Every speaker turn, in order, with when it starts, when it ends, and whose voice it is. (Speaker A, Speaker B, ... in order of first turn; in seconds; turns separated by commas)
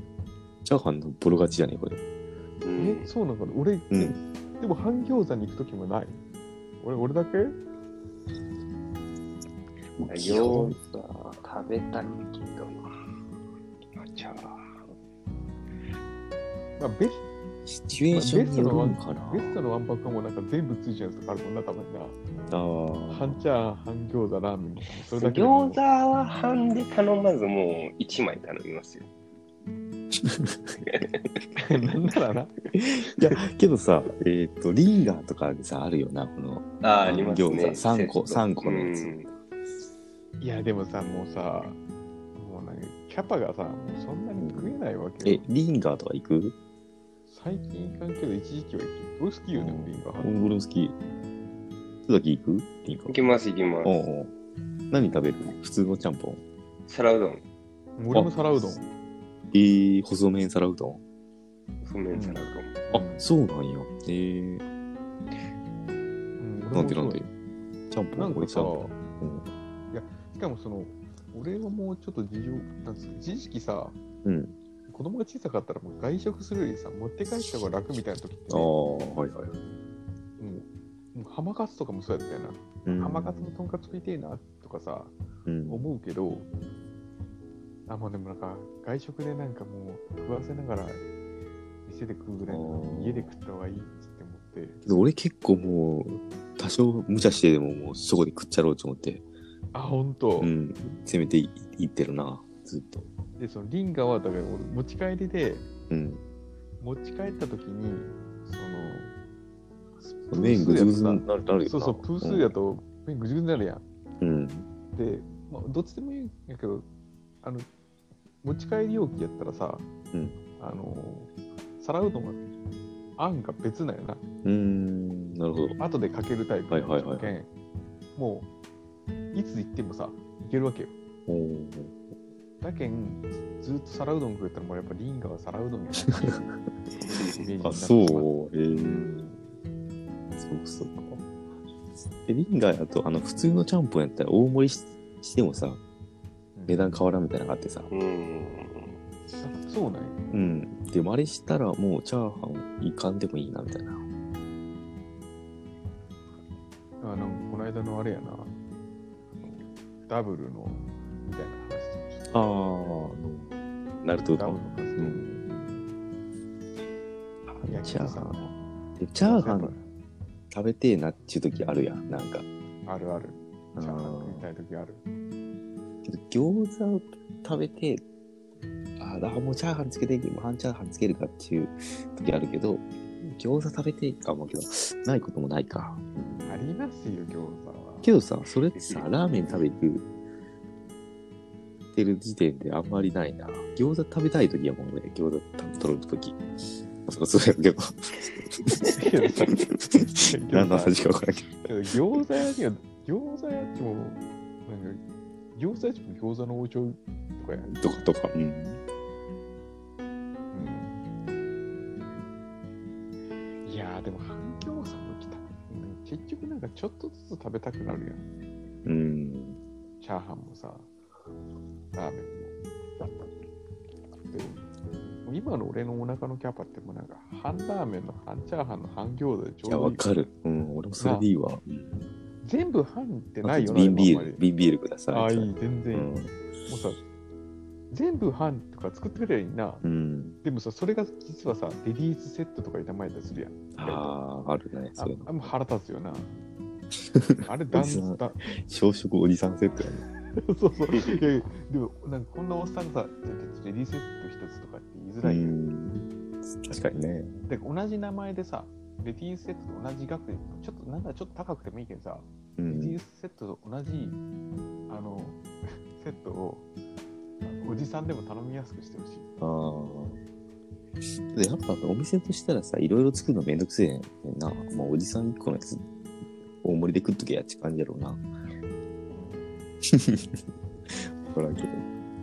Speaker A: 0.6-2.0, Speaker B: 2.6-3.1, Speaker C: 2.8-6.2, Speaker A: 3.9-4.2, Speaker C: 6.8-7.6, Speaker A: 10.0-10.8, Speaker B: 10.1-12.9, Speaker B: 14.0-14.8, Speaker C: 16.8-17.2, Speaker A: 17.7-19.6, Speaker C: 18.1-22.2, Speaker A: 22.5-23.4, Speaker C: 23.1-25.8, Speaker B: 25.1-29.1, Speaker A: 30.2-30.7, Speaker B: 30.8-31.2, Speaker C: 31.6-32.5, Speaker A: 33.1-39.1, Speaker B: 36.8-39.3, Speaker C: 40.4-41.8, Speaker C: 42.3-45.5, Speaker A: 44.4-46.5, Speaker C: 47.3-50.3, Speaker A: 49.5-51.0, Speaker A: 52.0-53.2, Speaker B: 53.1-53.9, Speaker A: 53.8-54.3, Speaker A: 54.9-56.4, Speaker B: 56.9-57.4, Speaker C: 58.0-58.9, Speaker A: 59.5-61.0, Speaker B: 61.8-62.8, Speaker C: 62.1-63.2, Speaker A: 62.9-64.6, Speaker C: 66.4-67.3, Speaker A: 66.7-67.3, Speaker A: 67.9-69.5, Speaker C: 68.1-69.0, Speaker C: 69.9-74.0, Speaker A: 74.2-74.5, Speaker C: 74.9-78.7, Speaker A: 78.5-79.5, Speaker C: 80.4-85.1, Speaker A: 82.8-83.5, Speaker A: 85.5-85.9, Speaker C: 85.7-86.5, Speaker C: 87.9-91.0, Speaker C: 91.8-94.8, Speaker A: 92.5-93.3, Speaker A: 94.8-99.2, Speaker C: 99.7-100.5, Speaker A: 100.4-103.1, Speaker C: 103.4-105.7, Speaker A: 105.9-106.2, Speaker C: 106.8-109.1, Speaker C: 110.0-113.8, Speaker A: 110.3-112.5, Speaker A: 114.2-114.7, Speaker C: 114.9-116.8, Speaker C: 118.4-119.9, Speaker A: 120.1-120.4, Speaker C: 120.6-122.4, Speaker C: 123.2-124.2, Speaker A: 124.4-125.8, Speaker C: 125.8-127.5, Speaker A: 126.7-127.3, Speaker C: 128.2-128.5, Speaker C: 129.3-130.9, Speaker A: 131.3-132.0, Speaker C: 132.6-136.5, Speaker B: 137.1-137.3, Speaker C: 137.1-139.5, Speaker A: 137.6-139.2, Speaker A: 140.4-141.2, Speaker A: 142.2-145.8, Speaker C: 146.5-146.9, Speaker A: 146.7-147.9, Speaker B: 147.9-149.0, Speaker C: 149.4-150.2, Speaker A: 150.3-154.0, Speaker C: 157.0-158.6, Speaker C: 159.3-162.4, Speaker A: 162.3-165.4, Speaker C: 164.3-165.9, Speaker A: 167.5-169.7, Speaker C: 167.7-168.5, Speaker C: 169.2-169.8, Speaker A: 170.5-172.4, Speaker C: 172.8-175.0, Speaker A: 173.8-174.5, Speaker A: 176.0-178.0, Speaker A: 179.0-186.6, Speaker C: 186.4-188.1, Speaker A: 188.0-190.0, Speaker A: 191.9-196.4, Speaker A: 197.1-198.8, Speaker C: 198.9-201.0, Speaker A: 199.6-202.2, Speaker C: 201.6-205.0, Speaker C: 205.5-207.9, Speaker A: 207.6-208.8, Speaker C: 210.5-210.9, Speaker C: 213.6-218.2, Speaker A: 218.8-219.6, Speaker C: 220.0-220.9, Speaker C: 221.9-222.6, Speaker C: 224.3-224.7, Speaker C: 225.2-230.0, Speaker A: 229.7-232.1, Speaker C: 231.0-231.3, Speaker C: 232.4-234.4, Speaker A: 233.4-236.3, Speaker C: 235.1-236.1, Speaker C: 236.7-237.0, Speaker C: 237.9-239.8, Speaker A: 239.8-240.4, Speaker C: 240.4-244.2, Speaker A: 243.7-245.5, Speaker C: 245.0-246.3, Speaker A: 247.1-250.0, Speaker C: 247.4-248.4, Speaker C: 250.3-255.6, Speaker A: 255.2-257.4, Speaker C: 257.4-264.2, Speaker A: 262.6-263.0, Speaker C: 264.9-266.7, Speaker C: 267.4-269.3, Speaker A: 269.4-270.2, Speaker A: 271.3-275.8, Speaker A: 276.6-278.2, Speaker C: 279.1-279.6, Speaker A: 279.8-281.9